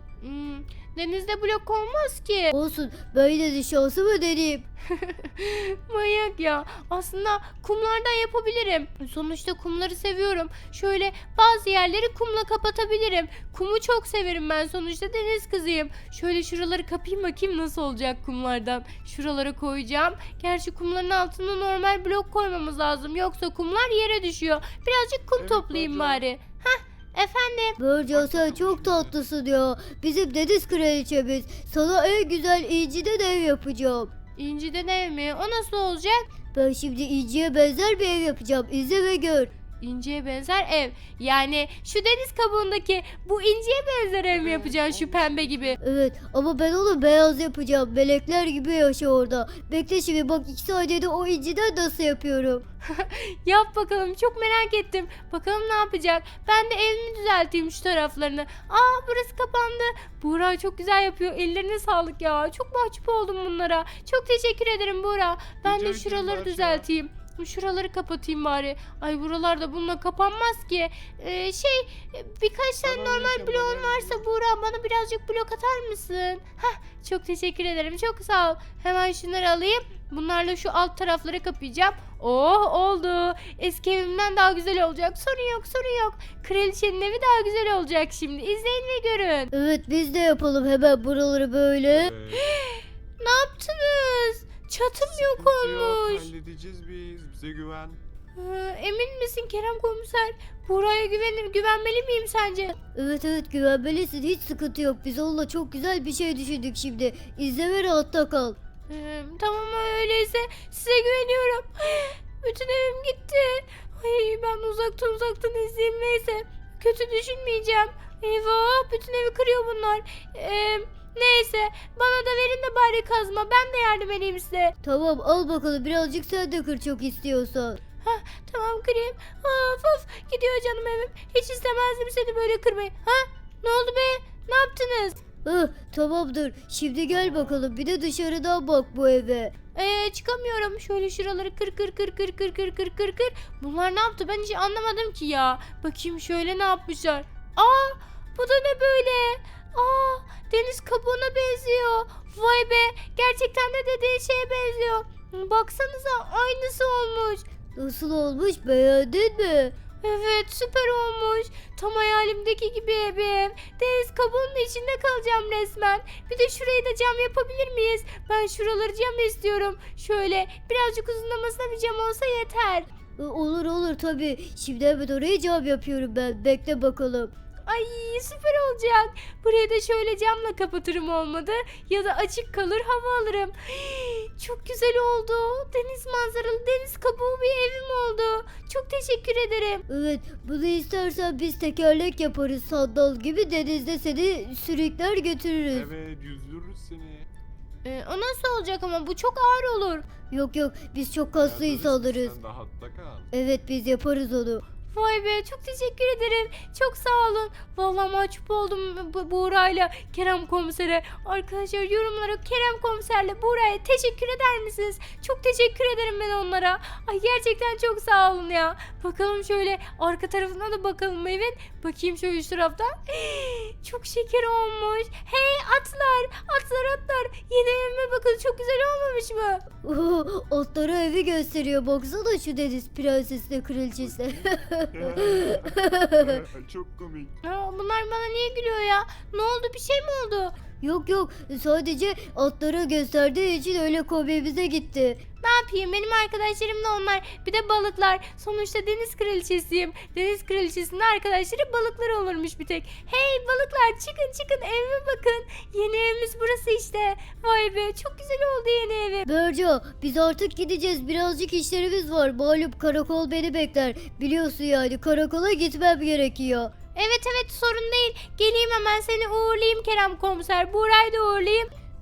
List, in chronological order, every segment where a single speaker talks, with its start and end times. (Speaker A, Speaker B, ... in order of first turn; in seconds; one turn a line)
Speaker A: 0.2-2.5
Speaker B: 2.5-4.6
Speaker A: 4.9-27.8
Speaker C: 25.4-26.2
Speaker B: 27.8-34.1
Speaker C: 28.1-29.2
Speaker A: 34.4-36.3
Speaker B: 36.5-39.5
Speaker A: 39.8-45.8
Speaker C: 44.3-45.8
Speaker B: 45.8-52.6
Speaker A: 52.9-89.5
Speaker C: 65.6-66.9
Speaker C: 72.8-74.2
Speaker B: 89.5-92.1
Speaker C: 91.9-92.5
Speaker A: 92.3-96.3
Speaker C: 95.1-98.0
Speaker A: 98.3-102.8
Speaker B: 103.0-108.6
Speaker A: 108.9-124.8
Speaker B: 124.8-127.8
Speaker A: 128.0-135.2
Speaker B: 135.4-139.5
Speaker C: 137.1-137.6
Speaker A: 139.8-157.4
Speaker B: 157.8-159.7
Speaker A: 160.0-172.9
Speaker B: 173.2-177.3
Speaker A: 177.7-189.8
Speaker B: 189.9-195.9
Speaker C: 195.7-197.3
Speaker A: 197.8-200.1
Speaker B: 200.3-202.4
Speaker C: 201.4-203.3
Speaker B: 203.3-204.6
Speaker A: 204.9-229.6
Speaker B: 229.8-236.4
Speaker C: 234.0-237.4
Speaker A: 237.4-240.6
Speaker B: 240.8-245.2
Speaker A: 245.4-259.3
Speaker B: 259.3-266.7
Speaker A: 266.9-271.7